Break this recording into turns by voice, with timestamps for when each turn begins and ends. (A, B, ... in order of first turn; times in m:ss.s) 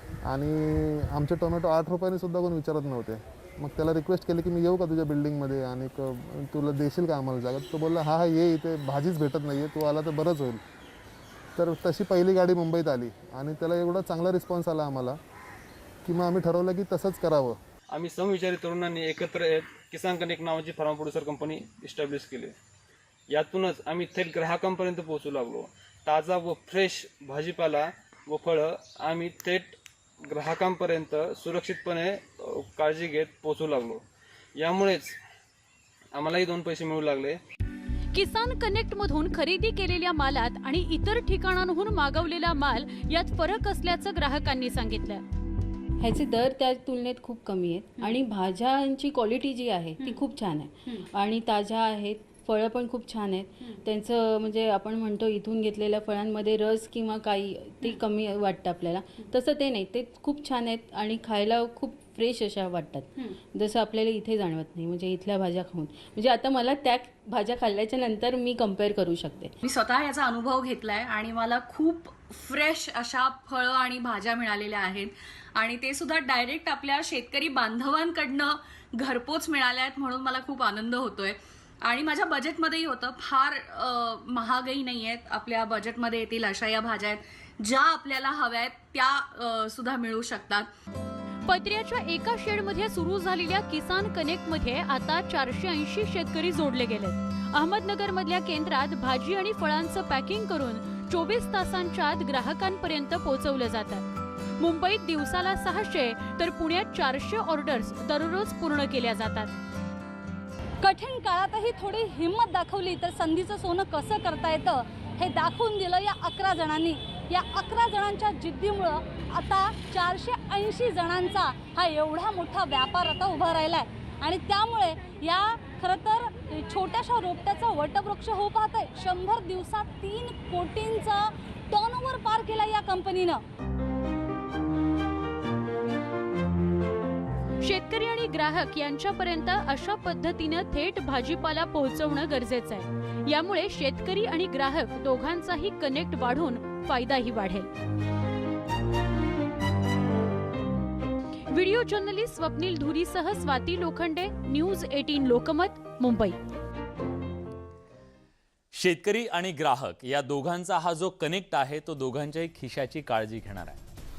0:00.3-0:10.6 A
0:11.6-0:15.2 A
0:16.0-0:17.6 A
0:17.9-0:22.5 B
0:23.3-0:29.8 B
0:30.3-0:34.0 B
0:34.6-0:35.2 B
0:36.1-0:37.4 B
0:38.1-0:45.2 C
0:46.0-1:03.0 D
0:48.0-0:48.2 E
0:50.0-0:50.3 E
1:03.5-1:09.5 D
1:09.6-1:30.7 E
1:31.5-1:44.1 C
1:44.6-1:49.5 C
1:50.8-2:13.4 F
2:17.6-2:27.7 C
2:31.5-2:36.4 C
2:38.7-2:43.8 G